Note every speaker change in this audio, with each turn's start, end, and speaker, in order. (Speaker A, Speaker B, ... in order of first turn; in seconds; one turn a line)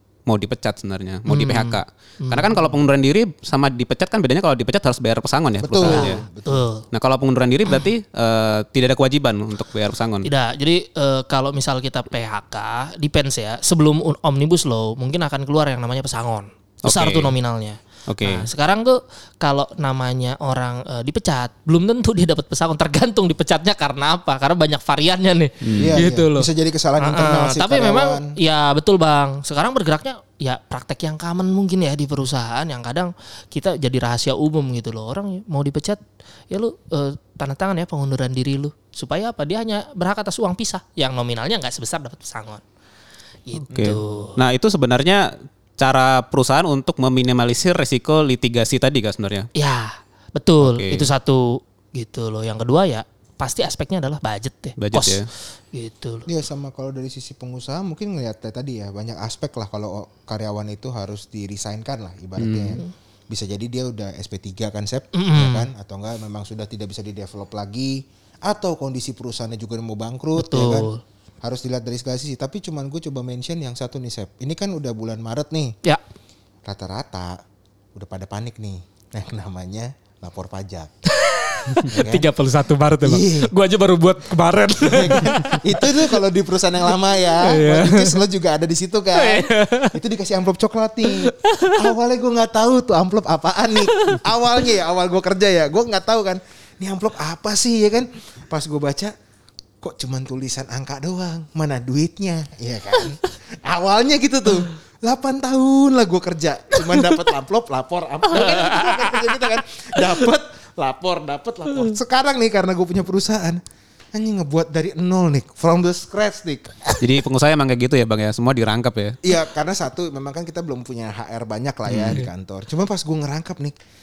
Speaker A: 0.3-6.2
Speaker B: 1.3-2.7
Speaker C: 5.6-6.7
Speaker B: 5.9-6.8
Speaker A: 6.9-10.3
Speaker B: 10.2-26.5
Speaker A: 16.9-17.3
Speaker A: 18.1-18.5
Speaker A: 25.6-26.0
Speaker C: 25.8-28.3
Speaker B: 27.0-42.6
Speaker B: 43.5-44.4
Speaker A: 43.7-49.5
Speaker B: 49.5-56.3
Speaker A: 50.6-51.1
Speaker A: 54.8-55.3
Speaker C: 56.3-70.9
Speaker A: 62.4-62.8
Speaker B: 65.2-65.7
Speaker B: 70.4-71.0
Speaker C: 71.4-75.8
Speaker C: 76.7-77.4
Speaker C: 78.0-80.9
Speaker B: 81.1-86.2
Speaker C: 81.9-82.3
Speaker C: 83.0-83.5
Speaker C: 84.8-99.1
Speaker B: 87.4-88.2
Speaker B: 89.1-90.0
Speaker B: 91.1-91.8
Speaker B: 93.9-94.2
Speaker C: 99.8-113.6
Speaker B: 108.3-109.4
Speaker C: 114.1-116.9
Speaker A: 117.0-119.2
Speaker C: 119.2-123.8
Speaker A: 121.9-122.2